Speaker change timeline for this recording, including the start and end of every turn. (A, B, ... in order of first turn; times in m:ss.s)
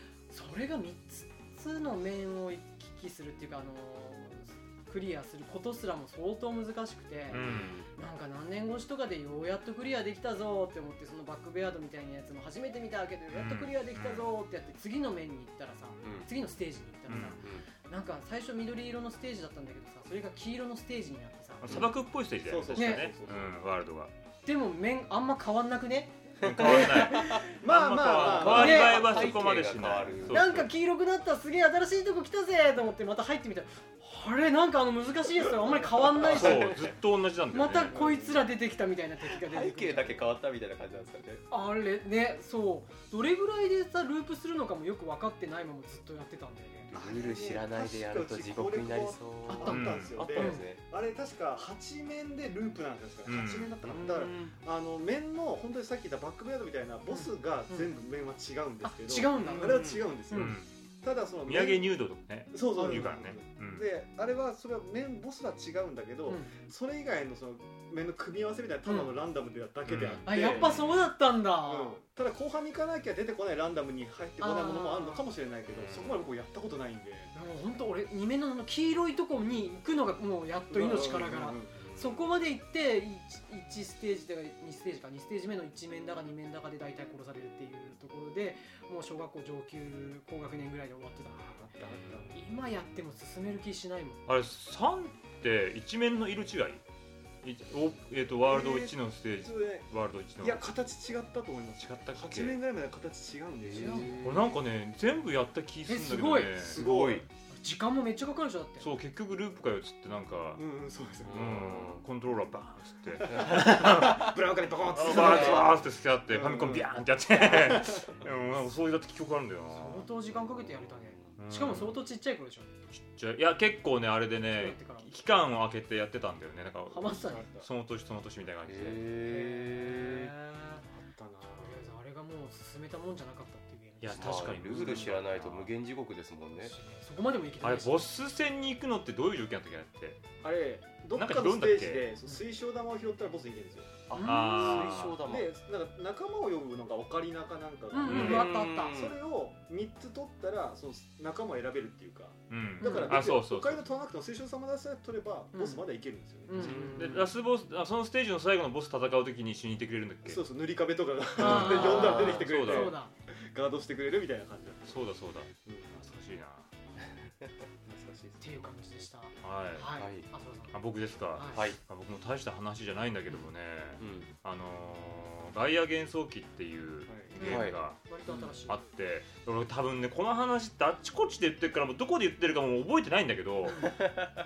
0:00.3-0:21.7 A
0:07.3-0:07.8 B
0:07.3-0:07.9 C
0:13.3-0:14.3 B
0:16.0-0:16.3 C
0:17.1-0:17.4 B
0:17.3-0:17.7 C
0:21.6-0:24.1 B
0:22.4-0:23.6 D
0:22.7-0:23.1 A
0:24.4-0:27.4 A
0:26.4-0:27.4 C
0:26.4-0:30.7 B
0:27.4-0:29.1 D
0:28.0-0:30.4 C
0:28.4-0:29.3 A
0:30.3-0:36.8 A
0:36.2-0:36.9 C
0:36.2-0:38.0 B
0:37.5-0:40.2 A
0:37.9-0:38.4 D
0:39.3-0:41.4 C
0:41.5-0:46.9 A
0:46.9-0:50.8 C
0:47.0-1:01.9 D
0:49.5-0:50.7 A
0:49.6-0:50.2 B
0:53.3-0:54.0 B
0:53.9-0:54.6 C
0:54.0-0:54.3 A
0:57.1-0:58.0 A
0:58.8-1:00.6 A
0:59.5-1:00.1 C
1:00.3-1:00.7 B
1:01.4-1:03.9 B
1:02.5-1:10.9 D
1:06.3-1:06.6 A
1:08.9-1:09.1 A
1:09.9-1:11.0 B
1:10.2-1:12.0 A
1:11.6-1:17.3 D
1:14.4-1:15.3 A
1:15.8-1:16.2 C
1:17.4-1:31.7 A
1:20.7-1:21.8 D
1:21.8-1:22.3 C
1:31.4-1:32.4 D
1:32.3-1:34.2 A
1:34.3-1:36.8 B
1:37.4-1:40.7 B
1:38.4-1:44.3 D
1:41.8-1:42.6 B
1:43.6-1:44.5 C
1:43.8-1:44.2 A
1:44.2-1:46.9 B
1:45.9-1:46.7 A
1:46.6-1:47.2 D
1:46.7-1:47.2 C
1:47.5-1:48.9 A
1:48.8-1:50.6 B
1:50.6-1:51.6 D
1:51.2-1:52.0 C
1:51.3-1:54.4 B
1:53.2-1:58.3 D
1:53.3-1:54.3 C
1:54.9-2:00.1 B
1:55.0-1:55.8 C
1:55.1-1:55.6 A
1:59.7-2:02.8 A
2:01.4-2:02.0 B
2:02.9-2:09.0 B
2:04.5-2:05.1 A
2:06.9-2:07.5 A
2:07.0-2:07.7 D
2:08.6-2:10.3 C
2:09.2-2:10.8 A
2:10.9-2:11.8 D
2:11.4-2:15.0 A
2:14.0-2:15.7 B
2:14.1-2:16.8 C
2:16.6-2:18.1 A
2:17.6-2:20.2 B
2:20.4-2:24.0 D
2:21.2-2:22.1 B
2:24.1-2:25.5 C
2:24.1-2:25.0 A
2:24.2-2:25.2 B
2:25.2-2:36.9 D
2:27.9-2:29.0 A
2:28.0-2:29.2 C
2:28.1-2:28.5 B
2:32.5-2:33.8 B
2:32.8-2:33.3 A
2:35.5-2:35.8 A
2:36.5-2:37.3 A
2:36.6-2:37.2 C
2:37.0-2:40.4 B
2:40.3-2:45.0 D
2:41.4-2:43.1 A
2:41.4-2:43.0 B
2:41.6-2:42.5 C
2:44.9-2:46.7 B
2:45.6-2:46.0 D
2:47.9-2:48.4 D
2:48.4-2:50.8 A
2:49.4-2:49.9 B
2:50.0-2:50.3 C
2:50.7-2:58.0 B
2:51.3-2:51.6 A
2:54.0-2:54.3 C
2:57.1-2:57.6 D
2:57.4-2:58.8 A
2:57.4-2:57.8 C
2:58.7-3:03.9 B
3:03.7-3:03.9 A
3:03.8-3:04.3 C